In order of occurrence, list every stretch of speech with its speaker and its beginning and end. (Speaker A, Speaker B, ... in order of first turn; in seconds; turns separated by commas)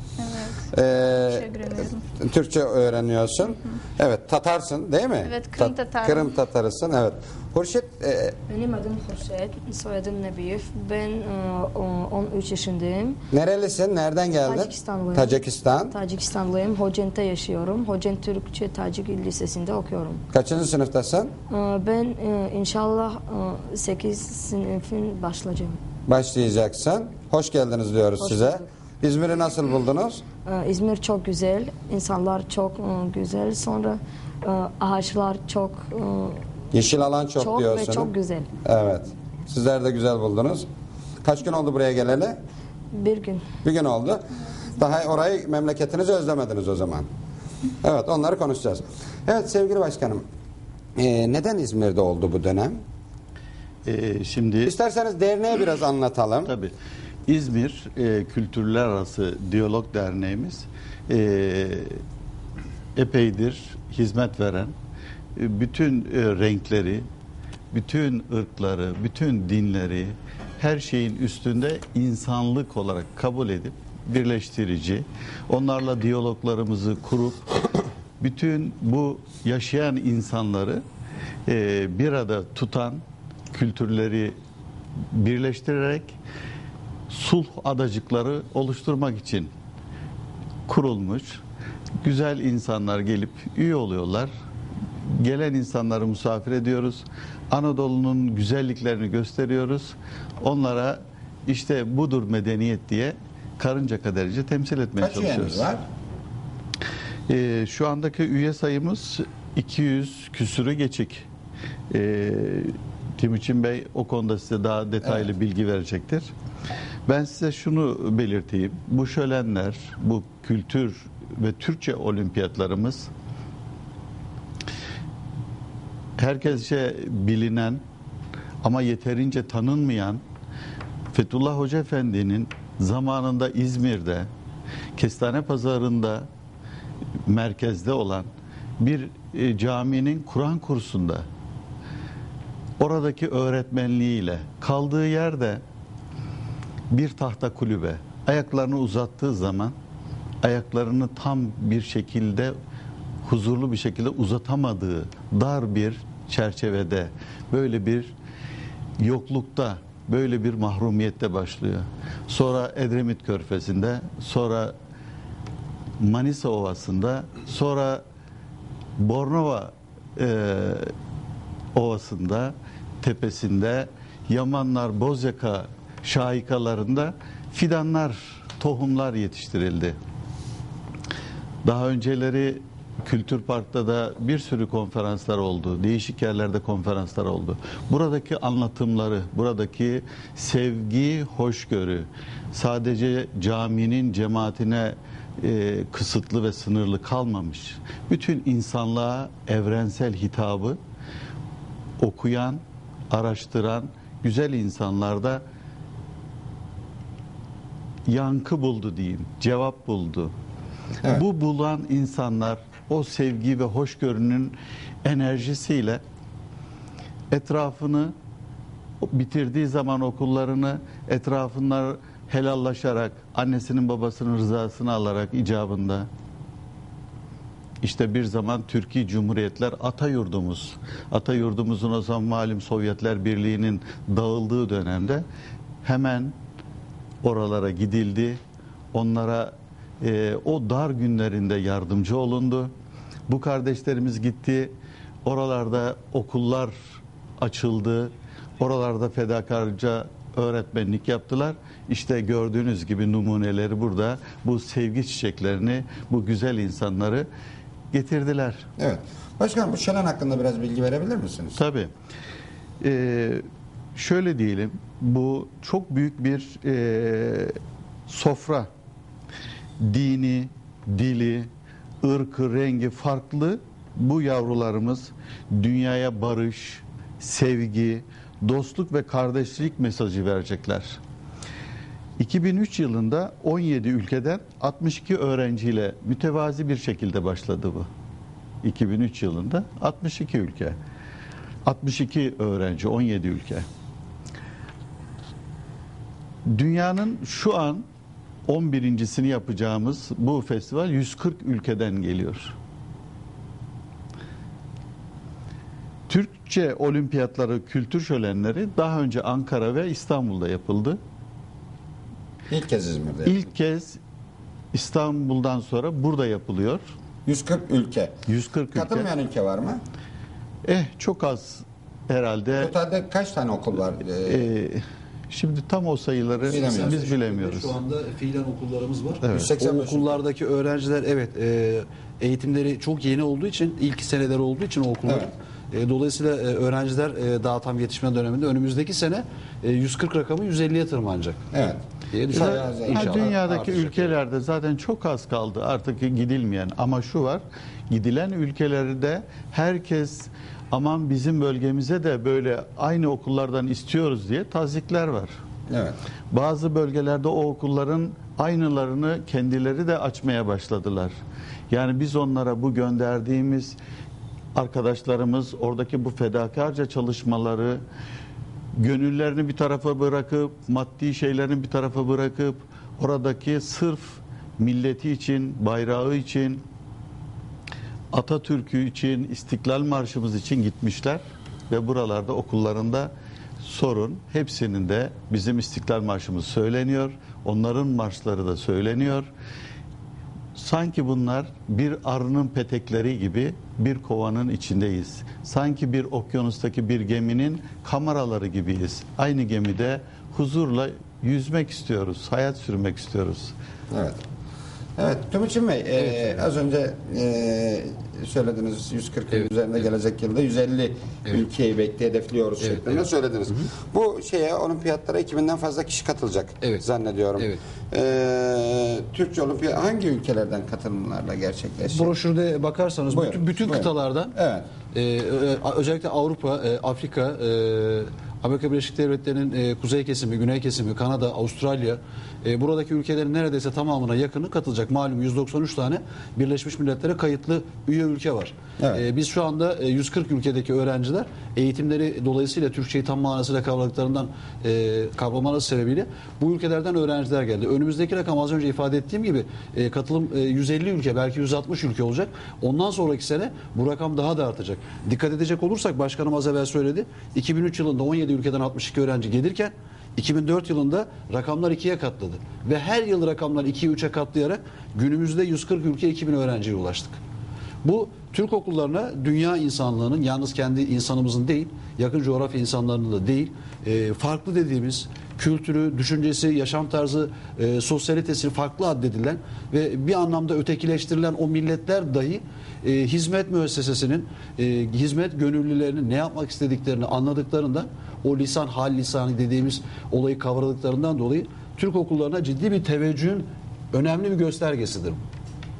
Speaker A: 0.2-0.7, Speaker B: 0.7-1.5, Speaker A: 1.3-2.0, Speaker B: 2.2-8.3, Speaker A: 5.2-6.3, Speaker C: 8.5-13.2, Speaker B: 13.3-15.9, Speaker C: 14.4-20.2, Speaker B: 20.3-21.3, Speaker C: 21.5-25.8, Speaker B: 26.1-30.2, Speaker C: 28.2-28.7, Speaker C: 30.4-36.4, Speaker B: 36.7-38.1, Speaker C: 37.4-38.5, Speaker B: 38.6-40.6, Speaker B: 41.2-42.4, Speaker C: 42.9-43.4, Speaker B: 43.6-47.1, Speaker B: 47.8-50.2, Speaker B: 51.0-52.8, Speaker D: 53.9-54.7, Speaker B: 54.6-56.5, Speaker D: 56.5-56.7, Speaker D: 57.3-61.9, Speaker D: 63.0-64.7, Speaker D: 65.3-67.0, Speaker D: 67.7-77.4, Speaker D: 78.2-80.8, Speaker D: 81.5-84.3, Speaker D: 85.1-86.2, Speaker D: 87.1-89.5, Speaker D: 90.7-91.4, Speaker D: 92.0-94.3, Speaker D: 95.1-105.7, Speaker B: 105.0-105.8, Speaker D: 107.3-111.2, Speaker D: 111.9-116.3, Speaker B: 115.0-115.3, Speaker D: 117.1-123.1, Speaker D: 126.2-127.8, Speaker D: 128.6-130.2, Speaker D: 131.1-134.3, Speaker D: 134.9-136.3, Speaker D: 137.3-141.2, Speaker D: 142.8-145.6, Speaker D: 146.9-149.7, Speaker D: 150.4-152.5, Speaker D: 153.2-158.1, Speaker D: 159.0-164.7, Speaker D: 166.0-168.0, Speaker D: 169.0-170.9, Speaker D: 171.7-179.9, Speaker D: 181.6-200.8, Speaker D: 202.0-205.4, Speaker D: 208.1-210.3, Speaker D: 211.0-216.0, Speaker D: 217.3-218.1, Speaker D: 219.0-226.1, Speaker D: 227.8-235.2, Speaker D: 235.8-236.3, Speaker D: 237.2-238.4, Speaker D: 238.9-242.7, Speaker D: 243.3-244.7, Speaker D: 245.2-246.7, Speaker D: 247.4-257.3, Speaker D: 257.9-258.7, Speaker B: 258.8-261.6, Speaker D: 261.6-261.9, Speaker D: 262.8-263.4, Speaker D: 263.9-267.5, Speaker D: 268.1-268.7, Speaker D: 269.8-271.5, Speaker D: 272.0-281.0, Speaker D: 282.2-287.9, Speaker D: 288.6-290.8, Speaker D: 291.6-293.6, Speaker D: 296.5-297.8, Speaker D: 298.5-302.5, Speaker D: 306.1-311.0, Speaker B: 312.5-313.4, Speaker D: 313.2-314.0, Speaker D: 314.7-316.8, Speaker B: 317.2-318.1, Speaker D: 318.3-319.1, Speaker B: 318.7-319.8, Speaker D: 320.6-322.7, Speaker B: 322.6-324.4, Speaker D: 324.2-327.8, Speaker B: 326.4-327.0, Speaker E: 326.4-341.4, Speaker D: 329.2-329.5, Speaker B: 329.3-330.2, Speaker B: 335.1-335.3, Speaker B: 341.5-341.8, Speaker E: 342.1-344.1, Speaker B: 342.3-343.2, Speaker D: 342.3-355.3, Speaker B: 355.7-355.9, Speaker D: 356.3-361.1, Speaker D: 361.7-363.8, Speaker D: 364.5-367.8, Speaker D: 368.8-376.6, Speaker D: 378.1-389.3, Speaker D: 390.6-403.5, Speaker B: 403.9-404.2, Speaker B: 405.0-422.1, Speaker E: 406.0-406.4, Speaker E: 412.6-413.6, Speaker E: 421.9-424.3, Speaker B: 423.1-424.7, Speaker E: 424.9-467.2, Speaker E: 467.8-495.2